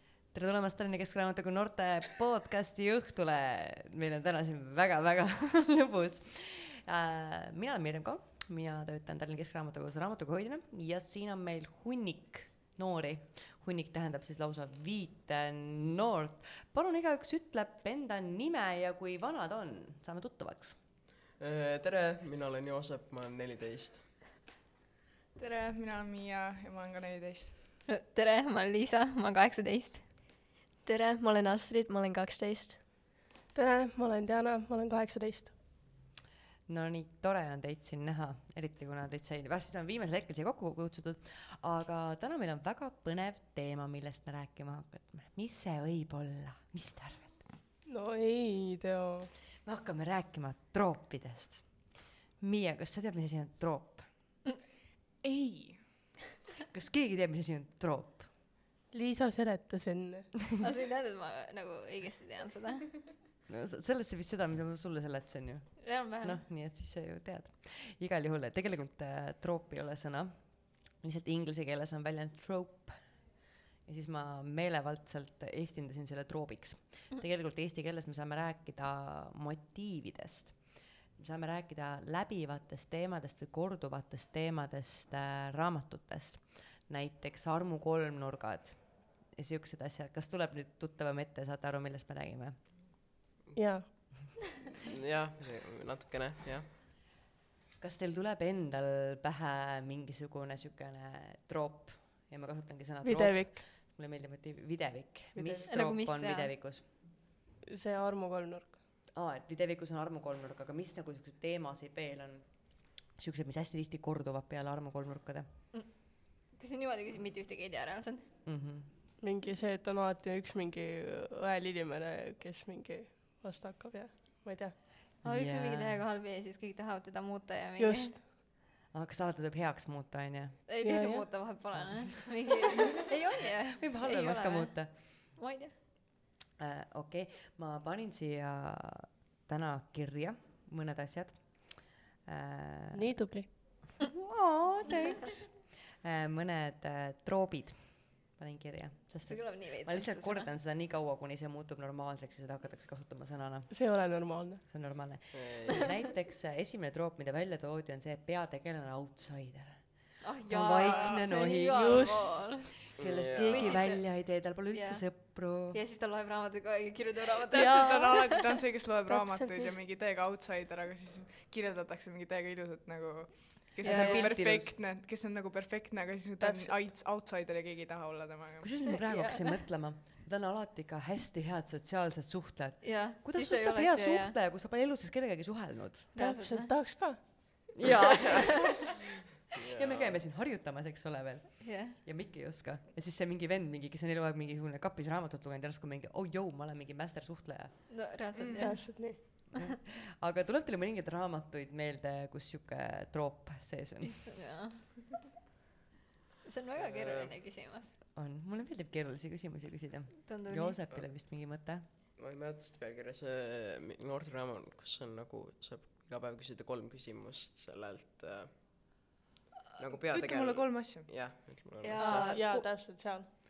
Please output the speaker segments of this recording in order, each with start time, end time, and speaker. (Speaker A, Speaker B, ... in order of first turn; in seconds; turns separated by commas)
Speaker A: 0.3-20.8, Speaker B: 21.4-24.0, Speaker C: 25.4-27.5, Speaker D: 27.9-30.1, Speaker E: 30.8-32.8, Speaker F: 33.5-35.5, Speaker A: 36.7-47.4, Speaker F: 47.9-49.3, Speaker A: 49.6-51.8, Speaker A: 52.4-54.1, Speaker A: 55.2-55.8, Speaker C: 55.3-55.7, Speaker A: 56.7-58.3, Speaker F: 58.9-60.3, Speaker D: 60.6-62.9, Speaker A: 63.5-70.3, Speaker D: 65.8-66.4, Speaker A: 70.9-73.0, Speaker A: 73.8-80.6, Speaker A: 81.2-92.7, Speaker F: 93.5-93.9, Speaker B: 94.9-96.7, Speaker A: 97.8-106.8, Speaker F: 103.0-103.7, Speaker F: 105.3-105.7, Speaker D: 105.7-106.5, Speaker F: 107.7-108.8, Speaker A: 109.1-112.5, Speaker A: 113.1-115.5, Speaker D: 115.7-118.3, Speaker A: 118.4-118.9, Speaker F: 119.2-124.8, Speaker A: 125.2-126.0, Speaker D: 125.2-128.2, Speaker F: 127.8-128.2, Speaker A: 128.9-130.6, Speaker D: 130.7-135.7, Speaker F: 130.8-131.3, Speaker A: 131.7-132.3, Speaker A: 133.8-134.9, Speaker A: 136.6-153.7, Speaker F: 142.9-143.5, Speaker D: 149.3-150.5, Speaker F: 153.7-154.6, Speaker A: 154.6-165.8, Speaker B: 155.3-155.9, Speaker D: 160.2-162.7, Speaker F: 161.7-162.4, Speaker B: 163.0-163.8, Speaker D: 163.5-168.6, Speaker C: 167.5-178.7, Speaker F: 169.1-169.7, Speaker D: 173.8-174.3, Speaker A: 173.8-174.7, Speaker F: 176.4-176.8, Speaker A: 178.6-186.1, Speaker D: 179.0-179.4, Speaker D: 182.8-184.3, Speaker D: 186.2-186.7, Speaker F: 186.2-187.2, Speaker A: 187.7-188.8, Speaker B: 189.5-190.2, Speaker A: 189.7-197.7, Speaker D: 191.6-192.0, Speaker D: 197.9-199.4, Speaker C: 198.4-198.7, Speaker F: 198.6-199.2, Speaker A: 199.5-204.2, Speaker D: 204.0-204.9, Speaker D: 206.4-207.9, Speaker B: 206.8-207.3, Speaker A: 208.1-211.8, Speaker D: 210.3-210.8, Speaker B: 212.2-218.6, Speaker B: 219.8-222.4, Speaker C: 220.1-221.3, Speaker E: 221.8-222.7, Speaker D: 222.0-222.4, Speaker F: 222.3-223.3